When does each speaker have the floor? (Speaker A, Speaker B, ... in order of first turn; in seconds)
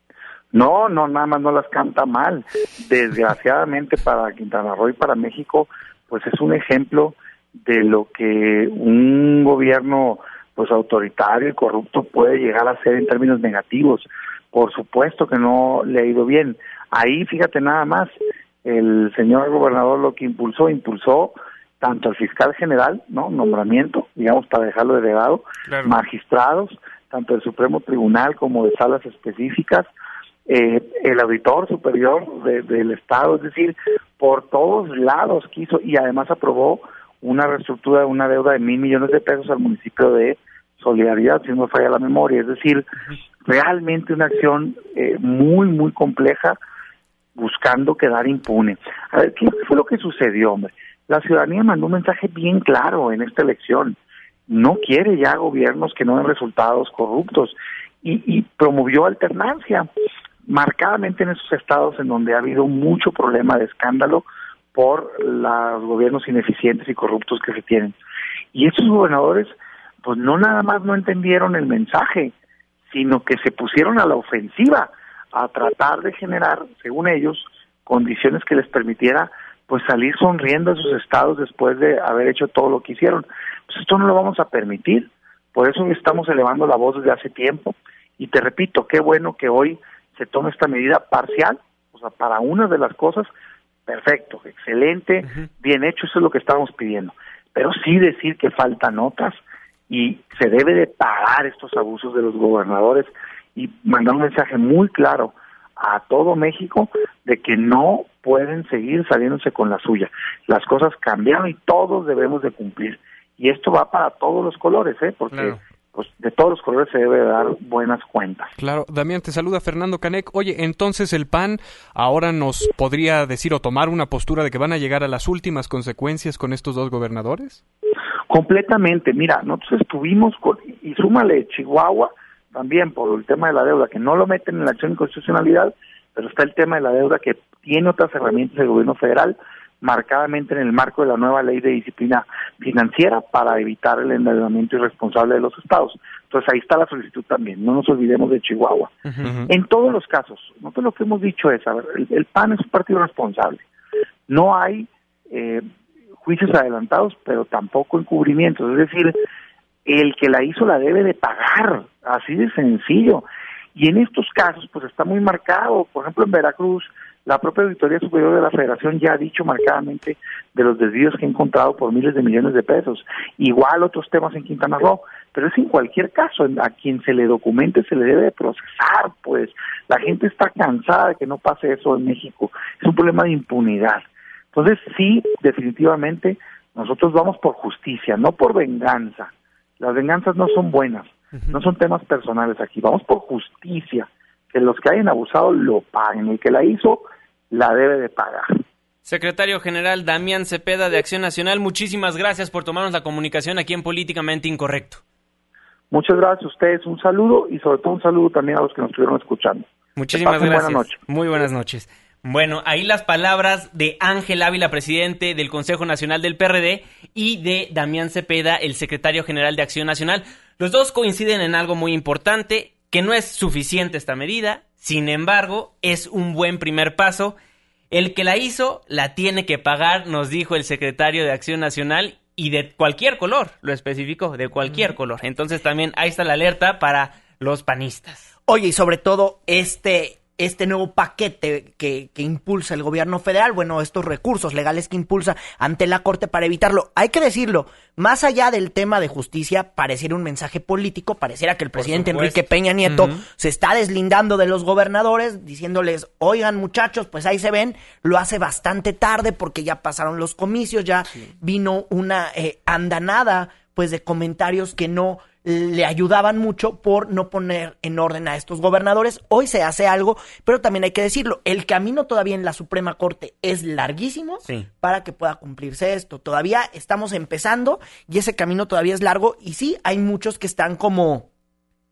Speaker A: 0.5-18.1, 18.6-29.9, 30.5-42.9, 43.4-46.6, 47.4-54.0, 54.5-59.9, 60.5-67.9, 68.5-72.3, 72.9-93.3, 93.9-118.5, 128.3-148.9, 149.5-153.6, 154.3-155.6, 156.2-159.1, 159.8-198.5, 205.9-210.9
Speaker B: 25.7-26.0, 118.6-127.6, 149.2-149.5, 252.8-253.2
Speaker C: 199.0-205.0, 209.9-227.3, 227.9-238.3, 251.8-252.5
Speaker D: 238.5-281.3